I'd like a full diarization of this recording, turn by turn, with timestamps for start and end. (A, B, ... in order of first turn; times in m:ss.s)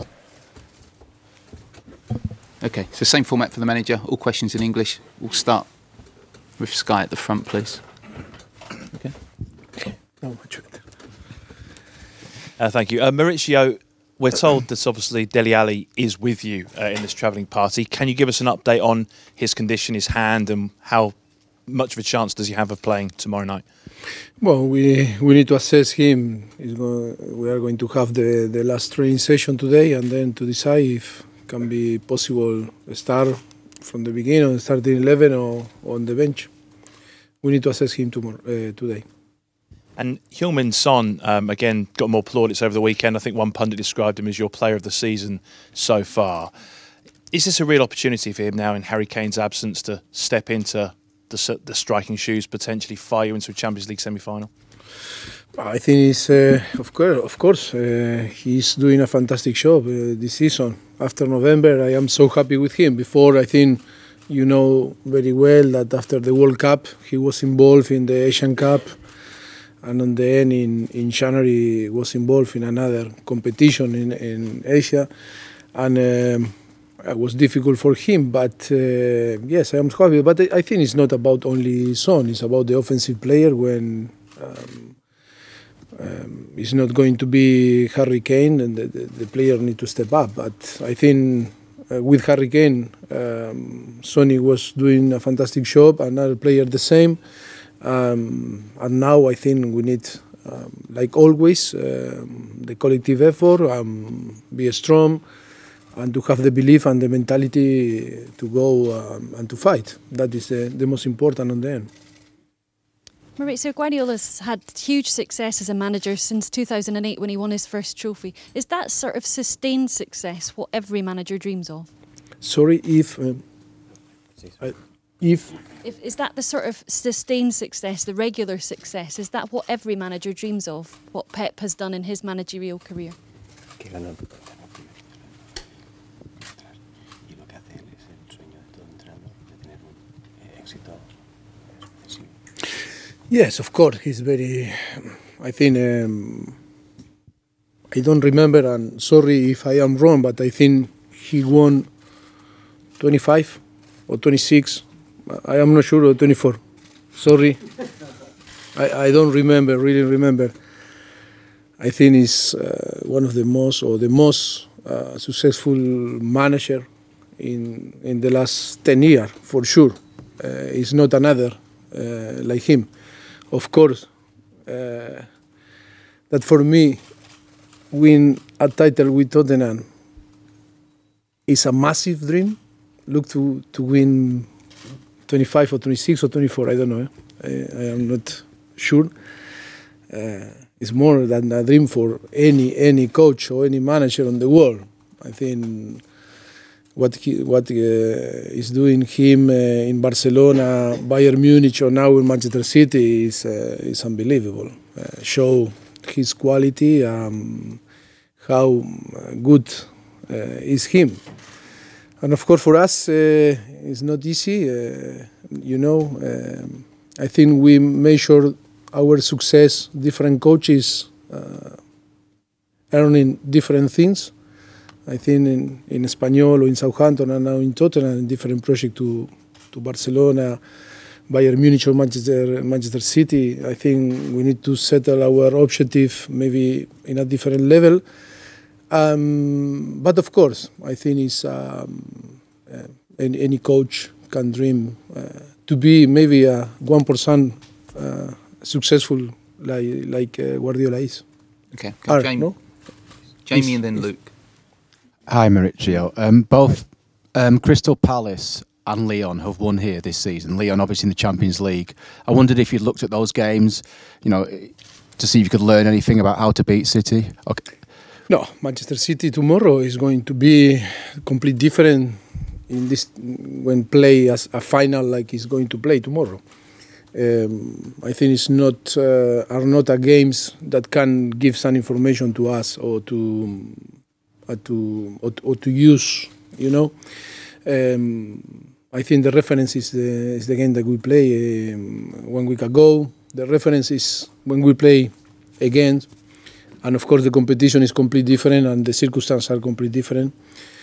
0:02.6-0:05.7 A
0:06.6-0:07.8 A
0:10.2-0:10.8 B
0:12.6-0:21.2 C
0:21.7-0:23.6 C
0:24.4-0:36.5 B
0:37.4-0:39.0 B
0:40.0-0:46.5 C
0:47.3-0:54.5 C
0:55.6-1:09.0 B
1:09.8-1:15.1 B
1:15.7-1:25.0 B
1:26.0-1:37.2 B
1:37.8-1:45.2 B
1:46.0-1:51.9 B
1:53.4-2:01.9 D
2:02.4-2:03.4 B
2:04.6-2:05.5 B
2:05.8-2:13.2 D
2:23.3-2:26.6 B
2:27.9-2:31.9 B
2:33.0-2:36.6 B
2:37.2-2:37.6 B
2:38.8-2:40.5 B
2:41.8-2:46.9 B
2:47.4-2:52.9 B
2:53.5-2:54.1 B
2:54.7-2:55.3 B
2:56.3-2:57.0 B
2:57.9-2:59.9 B
3:01.5-3:04.5 B
3:05.3-3:09.1 B
3:10.1-3:16.0 B
3:17.0-3:27.8 B
3:28.4-3:31.2 B
3:32.2-3:41.8 B
3:42.9-3:44.3 B
3:45.1-3:50.6 B
3:51.3-3:58.0 B
3:58.9-4:11.2 B
4:11.7-4:12.5 A
4:12.1-4:12.6 B
4:13.4-4:14.3 A
4:15.3-4:27.6 E
4:28.3-4:36.4 B
4:37.1-4:43.8 B
4:44.5-4:46.9 B
4:47.6-4:56.1 B
4:56.8-5:00.3 B